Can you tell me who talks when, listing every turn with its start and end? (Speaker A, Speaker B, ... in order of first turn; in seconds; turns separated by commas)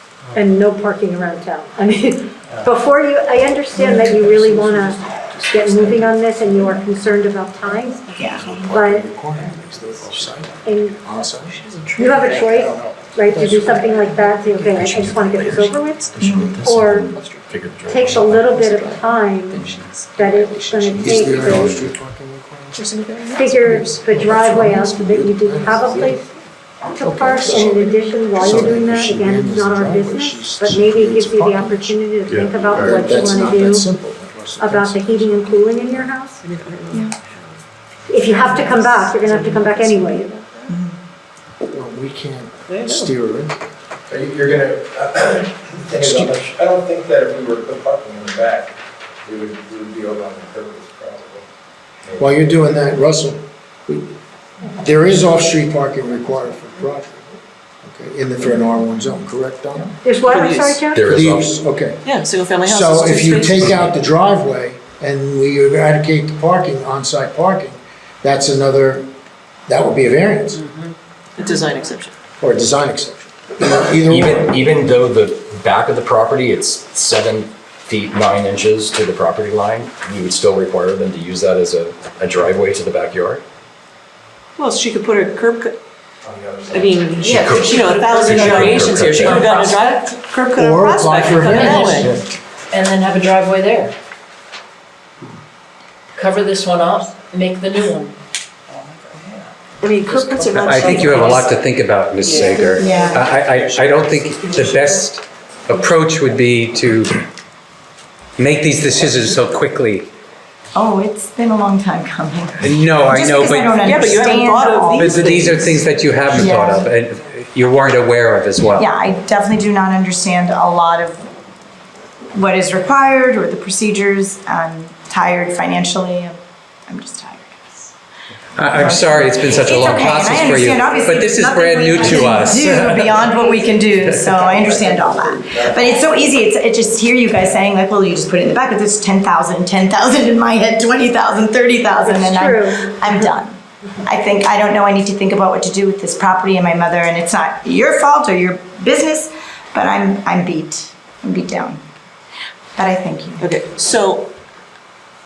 Speaker A: 0.3-9.1, Speaker B: 8.2-13.1, Speaker C: 8.2-8.5, Speaker A: 10.6-11.0, Speaker D: 11.4-12.4, Speaker A: 11.9-16.0, Speaker D: 13.3-14.7, Speaker E: 14.7-18.5, Speaker C: 16.2-16.6, Speaker A: 16.6-17.1, Speaker D: 17.1-17.4, Speaker A: 17.9-19.6, Speaker D: 18.0-21.7, Speaker E: 19.5-19.9, Speaker A: 20.1-21.8, Speaker B: 20.9-22.9, Speaker D: 22.7-24.0, Speaker A: 23.3-26.2, Speaker B: 24.1-26.2, Speaker A: 26.9-33.9, Speaker B: 27.0-32.0, Speaker F: 32.3-33.1, Speaker B: 32.5-36.1, Speaker A: 34.6-36.4, Speaker D: 36.4-37.6, Speaker A: 38.1-40.3, Speaker D: 38.3-40.7, Speaker C: 40.7-41.0, Speaker B: 41.7-43.7, Speaker D: 42.7-43.1, Speaker F: 44.1-48.7, Speaker B: 45.9-46.3, Speaker F: 49.2-51.5, Speaker F: 52.0-52.5, Speaker B: 52.2-54.1, Speaker B: 54.7-57.3, Speaker B: 57.8-59.9, Speaker A: 60.0-61.1, Speaker D: 60.2-60.8, Speaker E: 60.9-61.5, Speaker B: 61.0-69.1, Speaker D: 62.0-63.9, Speaker B: 69.7-70.7, Speaker D: 70.7-72.1, Speaker B: 72.4-74.5, Speaker E: 74.0-83.4, Speaker D: 84.6-85.8, Speaker F: 86.2-88.0, Speaker D: 86.7-92.2, Speaker E: 87.1-89.8, Speaker B: 90.5-92.3, Speaker G: 92.7-93.9, Speaker G: 96.2-98.1, Speaker D: 97.6-98.0, Speaker D: 99.8-101.6, Speaker H: 100.6-107.2, Speaker D: 102.2-104.9, Speaker C: 102.7-103.4, Speaker H: 108.4-110.1, Speaker C: 110.7-116.9, Speaker H: 112.6-113.9, Speaker D: 113.7-115.7, Speaker H: 114.9-118.9, Speaker C: 118.7-121.2, Speaker C: 122.3-127.9, Speaker H: 128.6-133.2, Speaker C: 128.7-151.8, Speaker F: 134.4-135.9, Speaker A: 142.0-143.0, Speaker C: 152.8-153.5, Speaker D: 153.4-154.3